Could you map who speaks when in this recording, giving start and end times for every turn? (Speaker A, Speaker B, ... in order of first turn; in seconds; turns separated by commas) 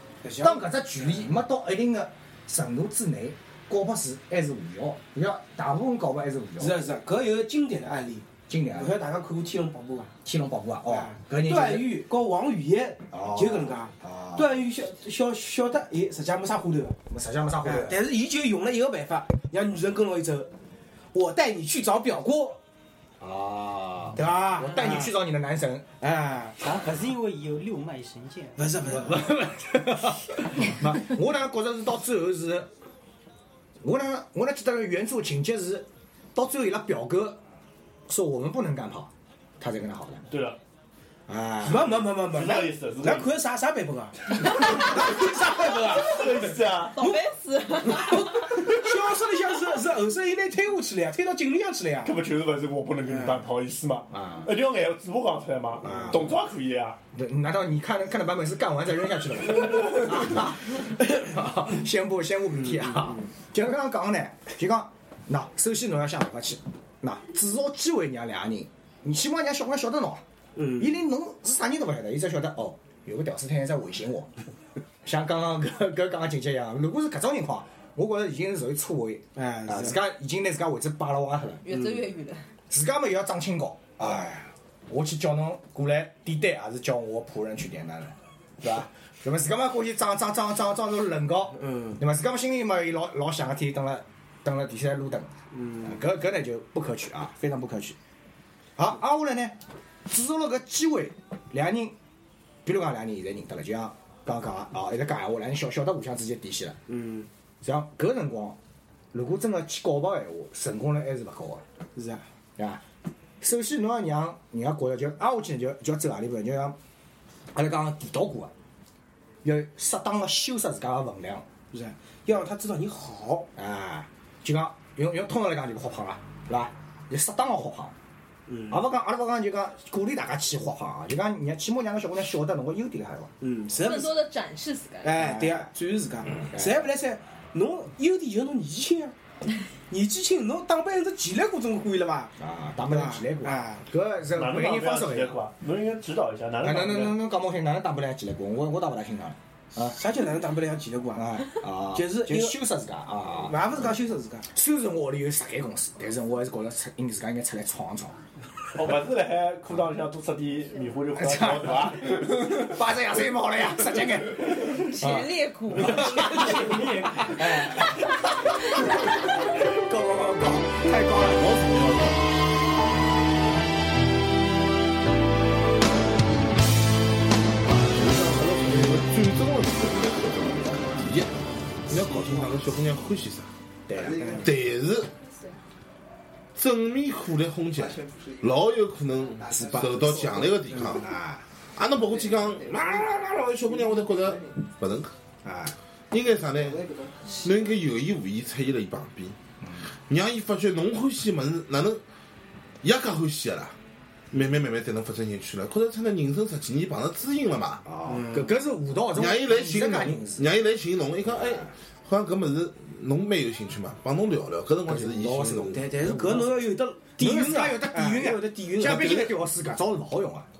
Speaker A: 0.2-1.3, Speaker B: 0.4-6.8, Speaker A: 6.6-10.1, Speaker B: 8.5-8.9, Speaker B: 10.2-11.9, Speaker A: 10.9-17.0, Speaker B: 13.1-14.5, Speaker B: 17.1-18.0, Speaker A: 17.6-20.5, Speaker A: 21.1-22.6, Speaker B: 23.2-25.9, Speaker A: 24.1-25.1, Speaker A: 26.0-26.6, Speaker C: 26.6-28.6, Speaker A: 28.6-29.4, Speaker B: 28.9-32.7, Speaker B: 33.8-37.4, Speaker B: 38.1-40.3, Speaker D: 40.3-40.6, Speaker B: 41.3-41.9, Speaker A: 41.6-47.2, Speaker D: 42.2-43.3, Speaker D: 46.0-47.0, Speaker E: 46.9-48.5, Speaker A: 47.8-52.2, Speaker D: 52.0-57.0, Speaker A: 53.0-53.5, Speaker B: 54.1-54.5, Speaker B: 55.8-56.4, Speaker A: 55.9-56.1, Speaker B: 57.1-70.2, Speaker A: 62.7-63.2, Speaker A: 70.5-71.0, Speaker B: 70.8-74.3, Speaker B: 75.0-81.6, Speaker A: 79.3-80.0, Speaker E: 81.6-82.5, Speaker A: 81.7-82.0, Speaker B: 82.7-95.3, Speaker A: 84.0-84.5, Speaker A: 91.5-92.0, Speaker A: 95.5-96.0, Speaker B: 95.8-98.0, Speaker B: 98.8-102.0, Speaker B: 102.6-106.8, Speaker A: 106.9-107.3, Speaker B: 107.6-108.6, Speaker B: 109.1-111.6, Speaker A: 111.9-112.3, Speaker B: 112.6-112.8, Speaker B: 113.4-116.8, Speaker B: 117.5-118.5, Speaker B: 119.4-121.4, Speaker A: 121.7-123.5, Speaker B: 123.5-127.9, Speaker A: 128.5-128.8, Speaker B: 128.7-133.3, Speaker A: 133.4-134.2, Speaker E: 133.8-135.2, Speaker A: 135.0-139.1, Speaker B: 135.2-135.7, Speaker B: 136.5-136.8, Speaker A: 139.9-142.3, Speaker B: 142.4-145.4, Speaker A: 142.8-143.8, Speaker D: 144.3-147.2, Speaker B: 146.6-150.0, Speaker A: 149.8-152.6, Speaker B: 151.1-153.8, Speaker A: 153.3-154.5, Speaker B: 154.5-158.2, Speaker D: 158.7-162.3, Speaker B: 161.1-168.1, Speaker E: 164.7-166.7, Speaker D: 166.6-167.2, Speaker B: 169.5-171.5, Speaker F: 171.3-172.2, Speaker F: 177.7-183.5, Speaker B: 183.9-184.4, Speaker A: 184.2-184.4, Speaker F: 184.3-185.1, Speaker F: 186.5-191.1, Speaker B: 189.5-190.2, Speaker B: 190.8-191.4, Speaker F: 191.7-195.2, Speaker B: 195.4-195.7, Speaker F: 196.1-199.4, Speaker F: 200.1-202.0, Speaker F: 202.8-203.8, Speaker F: 204.3-207.8, Speaker B: 207.8-210.4, Speaker A: 208.1-208.6, Speaker F: 209.1-215.8, Speaker B: 214.9-216.6, Speaker A: 215.6-219.4, Speaker B: 217.2-220.5